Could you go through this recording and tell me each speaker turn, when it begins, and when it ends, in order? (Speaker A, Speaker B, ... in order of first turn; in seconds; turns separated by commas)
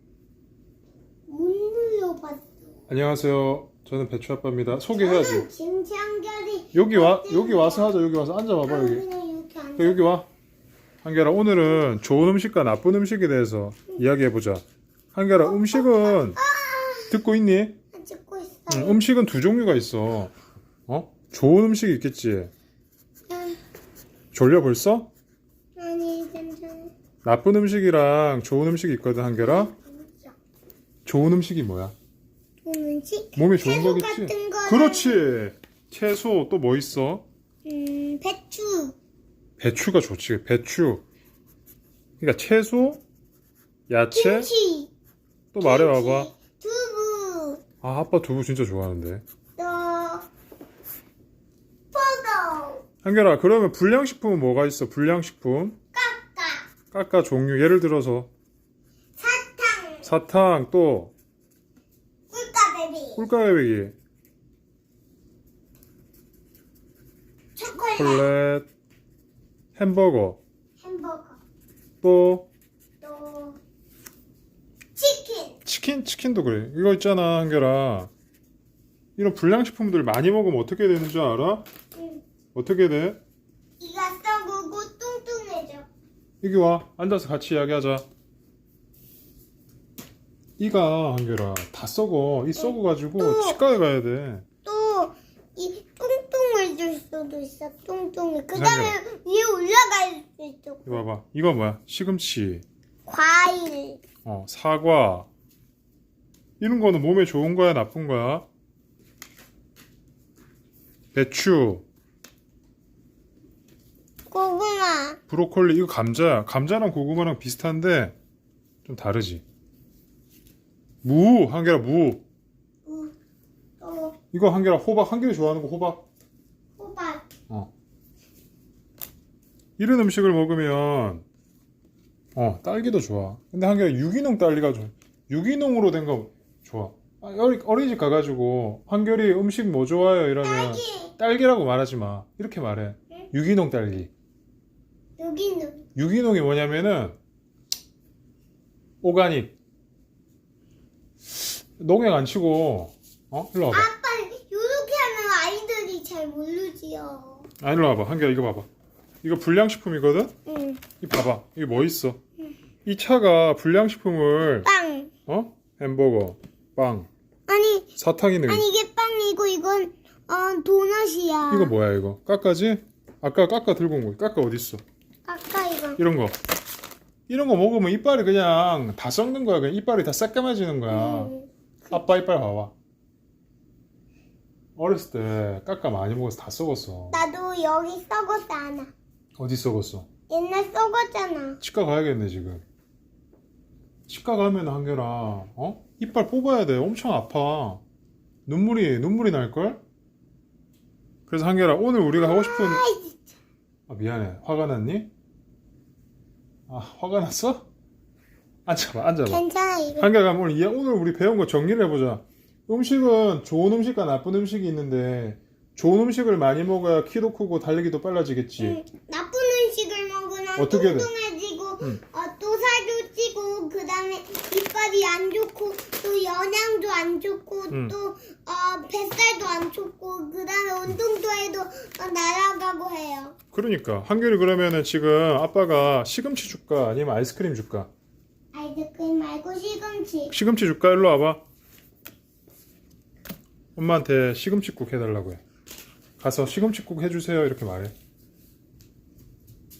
Speaker A: 1.3-2.6, Speaker B: 2.9-5.5, Speaker A: 4.9-7.9, Speaker B: 6.7-9.0, Speaker A: 8.6-10.0, Speaker B: 9.8-10.3, Speaker B: 11.0-14.6, Speaker B: 15.1-16.4, Speaker A: 15.4-17.1, Speaker B: 17.1-17.8, Speaker A: 17.9-19.0, Speaker B: 18.7-20.3, Speaker B: 20.9-22.5, Speaker A: 23.3-23.6, Speaker B: 24.3-25.1, Speaker A: 25.8-26.9, Speaker B: 27.2-29.7, Speaker A: 29.4-30.3, Speaker B: 31.0-31.9, Speaker A: 32.6-35.2, Speaker B: 33.4-37.2, Speaker A: 37.6-38.9, Speaker B: 39.6-41.0, Speaker B: 42.2-43.0, Speaker B: 43.9-44.5, Speaker A: 44.1-44.9, Speaker B: 45.5-46.3, Speaker A: 45.6-47.6, Speaker B: 47.8-49.2, Speaker A: 49.6-50.3, Speaker A: 51.9-52.8, Speaker B: 53.0-55.8, Speaker A: 55.9-56.7, Speaker B: 56.9-58.3, Speaker A: 59.2-60.1, Speaker B: 60.0-61.1, Speaker A: 62.3-63.2, Speaker B: 63.2-63.9, Speaker A: 67.5-68.3, Speaker B: 68.0-68.7, Speaker B: 69.8-70.4, Speaker A: 70.8-71.4, Speaker B: 72.0-72.5, Speaker A: 73.0-73.6, Speaker A: 75.0-75.6, Speaker B: 75.7-78.1, Speaker B: 79.2-81.7, Speaker A: 81.9-82.2, Speaker B: 82.5-83.2, Speaker A: 83.8-85.9, Speaker B: 86.4-88.0, Speaker B: 90.6-94.5, Speaker A: 92.6-93.6, Speaker A: 94.6-101.0, Speaker B: 98.5-99.0, Speaker B: 100.8-102.6, Speaker A: 103.0-104.0, Speaker B: 104.2-105.3, Speaker B: 106.6-108.5, Speaker B: 111.1-111.8, Speaker A: 114.3-115.2, Speaker B: 115.3-118.2, Speaker B: 118.8-119.4, Speaker B: 121.0-122.2, Speaker A: 122.8-123.1, Speaker A: 123.8-124.2, Speaker B: 124.3-126.0, Speaker A: 126.8-127.3, Speaker B: 129.8-131.2, Speaker B: 132.3-144.1, Speaker A: 140.4-141.1, Speaker A: 145.2-145.8, Speaker B: 145.9-147.2, Speaker B: 149.0-149.5, Speaker B: 151.3-153.9, Speaker A: 153.7-157.5, Speaker B: 157.6-158.7, Speaker B: 159.2-160.3, Speaker A: 160.4-160.8, Speaker B: 161.0-162.2, Speaker B: 162.8-164.7, Speaker A: 164.6-165.1, Speaker B: 165.3-167.1, Speaker A: 167.5-167.9, Speaker B: 168.0-168.7, Speaker A: 168.5-171.7, Speaker B: 171.5-174.8, Speaker A: 175.2-176.0, Speaker B: 176.0-176.4, Speaker B: 177.3-181.3, Speaker A: 180.9-181.9, Speaker B: 181.9-182.7, Speaker B: 184.8-187.2, Speaker A: 187.1-188.9, Speaker B: 189.4-190.1, Speaker A: 190.3-191.6, Speaker B: 191.6-192.6, Speaker B: 194.1-197.8, Speaker B: 198.5-199.8, Speaker B: 201.3-202.8, Speaker A: 202.1-203.3, Speaker B: 203.9-205.1, Speaker B: 206.7-207.7, Speaker B: 208.7-209.4, Speaker A: 209.2-210.1, Speaker B: 210.0-218.8, Speaker A: 218.6-233.3, Speaker B: 220.6-221.1, Speaker B: 227.7-227.9, Speaker B: 233.5-237.9, Speaker A: 238.5-240.3, Speaker B: 240.3-241.4, Speaker B: 243.8-245.4, Speaker B: 246.2-247.9